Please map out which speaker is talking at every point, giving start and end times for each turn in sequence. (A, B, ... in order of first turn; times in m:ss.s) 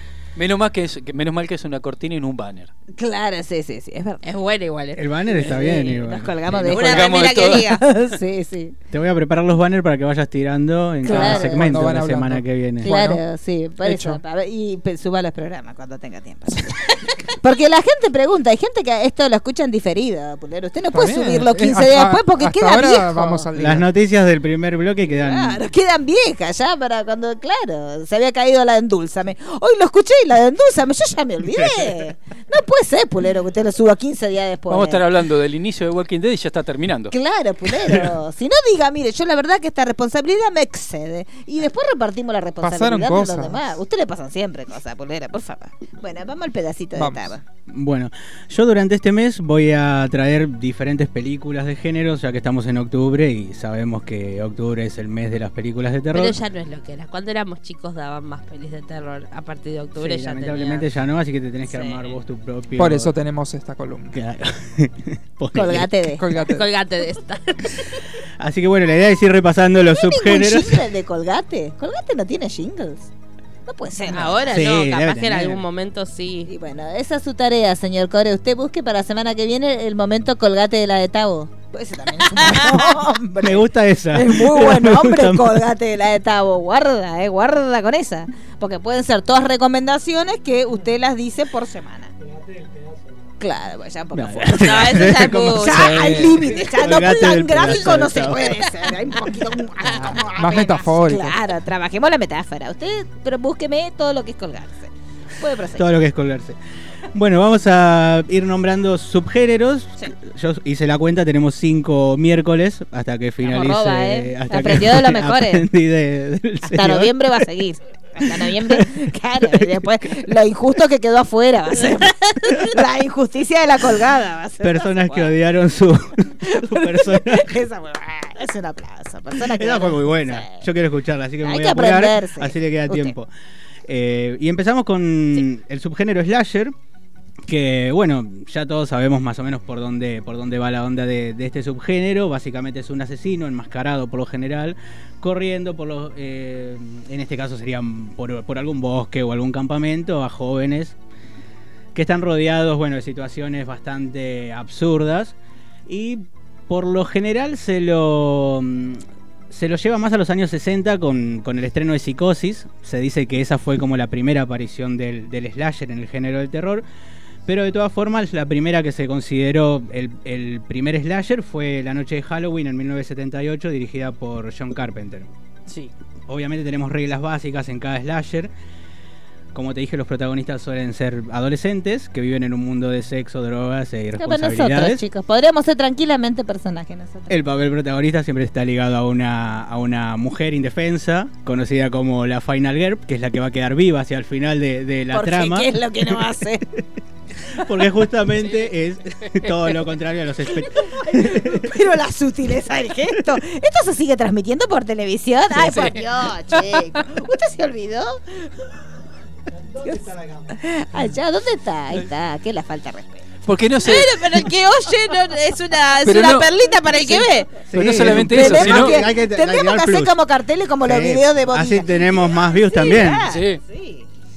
0:00.4-0:02.7 A
0:03.0-0:04.2 B
0:04.2-0:05.0 C
0:05.0-0:06.4 D
0:05.3-0:08.8 B
0:06.6-0:07.7 A
0:06.6-0:07.8 C
0:08.9-0:12.9 D
0:11.0-0:11.7 B
0:11.1-0:13.2 E
0:12.8-0:23.5 B
0:13.8-0:14.2 E
0:20.9-0:23.9 E
0:23.6-0:25.6 D
0:25.2-0:35.0 B
0:31.6-0:31.9 D
0:34.7-0:37.1 A
0:37.1-0:47.4 B
0:42.6-0:43.7 E
0:47.0-0:47.3 E
0:47.7-0:56.4 D
0:56.1-1:00.9 C
1:00.0-1:03.1 D
1:01.7-1:02.0 B
1:02.8-1:04.2 E
1:04.1-1:05.9 D
1:05.5-1:06.2 B
1:06.2-1:06.6 E
1:06.5-1:07.8 C
1:08.4-1:10.8 D
1:09.9-1:13.1 B
1:13.7-1:14.5 B
1:14.1-1:16.5 C
1:14.4-1:15.6 D
1:16.5-1:32.1 B
1:22.4-1:22.7 C
1:23.4-1:25.6 D
1:33.4-1:45.9 B
1:34.1-1:38.7 D
1:34.6-1:36.0 C
1:35.9-1:36.4 E
1:39.8-1:41.4 E
1:45.7-1:46.6 D
1:47.1-1:57.1 D
1:53.4-1:55.7 B
1:56.6-2:05.3 B
1:58.2-1:58.9 D
1:59.4-1:59.8 D
2:04.6-2:07.5 D
2:06.4-2:10.7 B
2:09.4-2:13.3 D
2:11.4-2:13.2 B
2:13.9-2:16.7 D
2:17.5-2:31.0 D
2:32.0-2:35.4 D
2:35.9-2:46.8 D
2:47.5-2:55.3 D
2:56.3-2:58.5 D
2:59.5-3:05.0 D
3:04.2-3:07.4 B
3:07.3-3:16.2 D
3:15.1-3:16.6 B
3:17.5-3:21.7 D
3:20.4-3:28.6 B
3:25.6-3:26.0 A
3:29.8-3:33.3 B
3:33.5-3:34.2 A
3:33.8-3:37.4 C
3:36.0-3:36.5 A
3:36.2-3:44.1 B
3:37.7-3:40.2 D
3:37.7-3:39.0 A
3:40.8-3:43.3 D
3:43.3-3:43.6 A